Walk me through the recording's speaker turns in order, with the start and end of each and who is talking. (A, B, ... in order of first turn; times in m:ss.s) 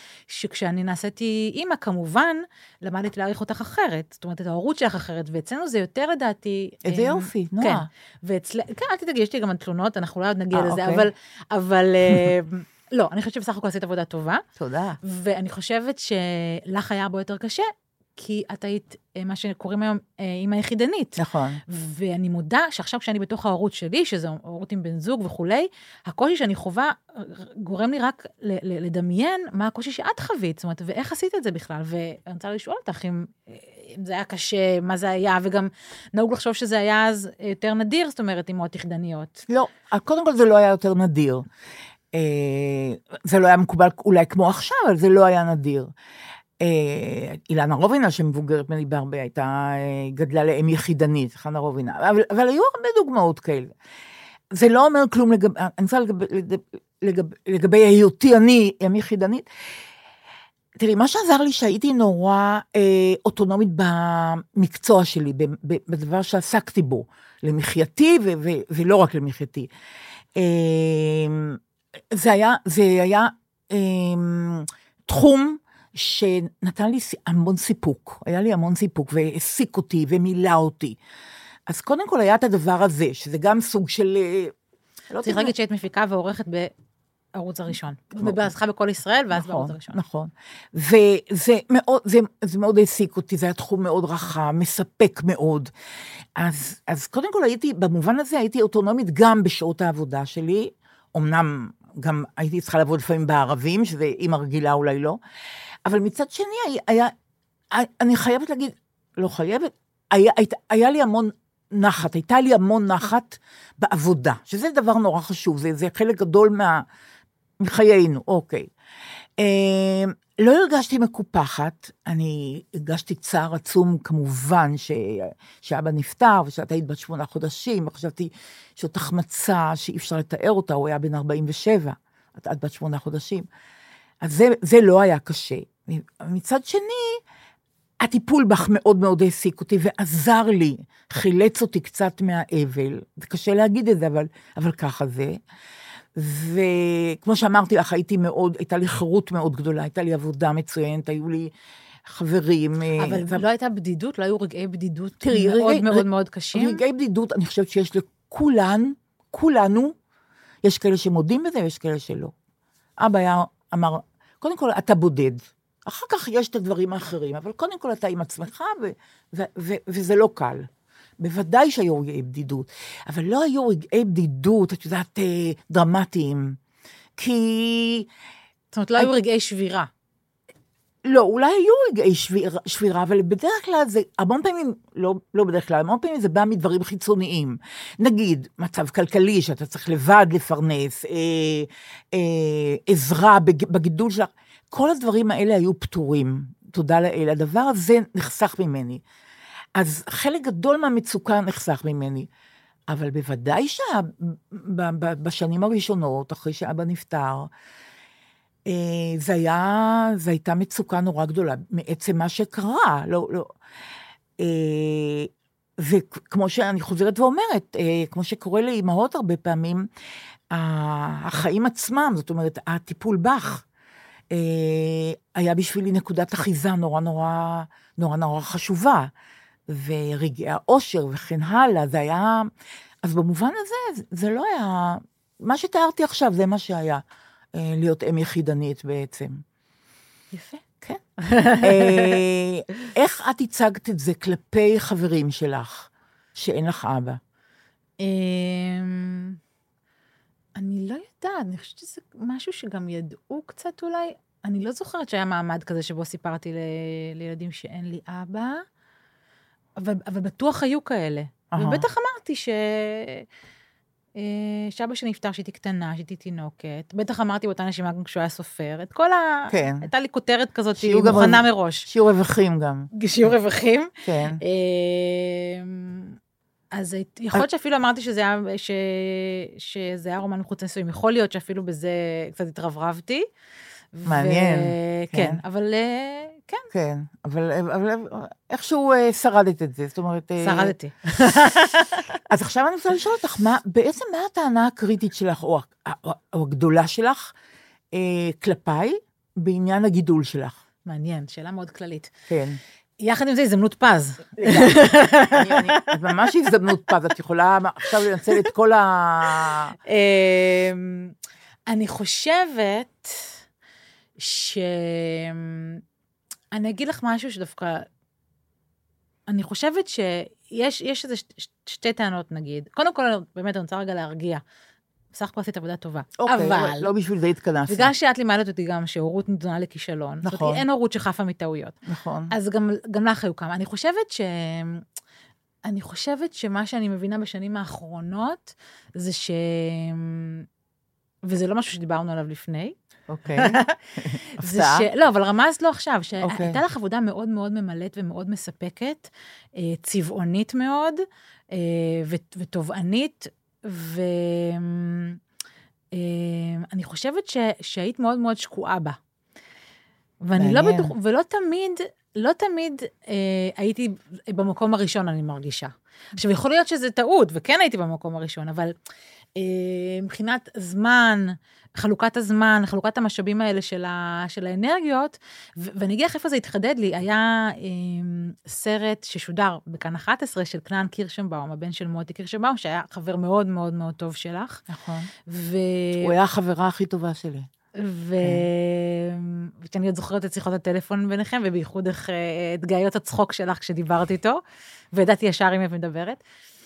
0:00.3-0:14.4 A
0:06.8-0:07.9 B
0:10.5-0:11.1 B
0:14.6-0:15.0 B
0:15.0-0:39.4 A
0:21.2-0:21.6 B
0:39.5-0:41.5 B
0:42.1-0:45.9 B
0:46.6-0:53.7 B
0:54.5-0:59.5 B
1:00.8-1:09.7 B
1:10.4-1:11.6 B
1:12.1-1:21.0 B
1:21.7-1:24.5 B
1:25.1-1:25.5 B
1:25.2-1:26.7 A
1:27.4-1:30.0 A
1:29.3-1:35.7 B
1:36.4-1:45.2 B
1:45.9-1:47.1 B
1:47.7-1:56.8 B
1:57.6-1:58.7 B
1:59.4-2:13.5 B
2:14.2-2:17.2 B
2:18.0-2:25.4 B
2:26.2-2:31.5 B
2:32.1-2:33.4 B
2:33.0-2:36.8 A
2:35.2-2:40.0 B
2:40.6-2:42.3 B
2:43.0-2:50.7 B
2:51.2-2:56.6 B
2:57.2-2:58.1 B
2:58.7-2:59.9 A
3:01.0-3:19.0 B
3:19.8-3:22.3 B
3:22.9-3:27.5 B
3:28.7-3:33.5 B
3:34.4-3:39.9 B
3:40.5-3:43.6 B
3:44.3-3:49.1 B
3:49.7-3:52.5 B
3:53.0-3:57.0 B
3:57.6-3:59.4 B
4:00.3-4:00.6 A
4:01.2-4:02.2 A
4:01.6-4:07.2 B
4:08.0-4:09.4 A
4:10.6-4:18.6 A
4:19.8-4:23.2 A
4:21.5-4:21.8 B
4:24.2-4:31.9 A
4:29.5-4:29.9 B
4:30.8-4:32.9 B
4:32.9-4:36.2 A
4:34.0-4:34.4 B
4:36.7-4:43.3 A
4:43.9-4:46.7 A
4:44.1-4:45.4 B
4:46.7-4:50.7 B
4:50.4-4:52.0 A
4:52.3-4:57.3 B
4:57.9-5:00.6 B
5:00.9-5:02.1 A
5:02.3-5:02.6 B
5:03.0-5:05.9 A
5:04.4-5:09.8 B
5:09.9-5:11.1 A
5:11.7-5:13.4 A
5:14.2-5:15.8 A
5:16.5-5:17.9 A
5:19.3-5:24.4 A
5:25.1-5:26.9 A
5:26.2-5:27.9 B
5:27.7-5:31.8 A
5:30.2-5:30.6 B
5:31.9-5:32.3 B
5:32.3-5:34.8 A
5:35.6-5:40.5 A
5:41.2-5:42.8 A
5:43.1-5:44.9 B
5:43.4-5:55.2 A
5:46.2-5:46.6 B
5:55.9-5:59.0 A
6:00.2-6:08.7 A
6:00.4-6:00.9 B
6:09.4-6:24.6 A
6:24.7-6:25.1 B
6:25.3-6:26.2 A
6:26.0-6:27.5 B
6:27.8-6:34.4 A
6:34.9-6:36.2 A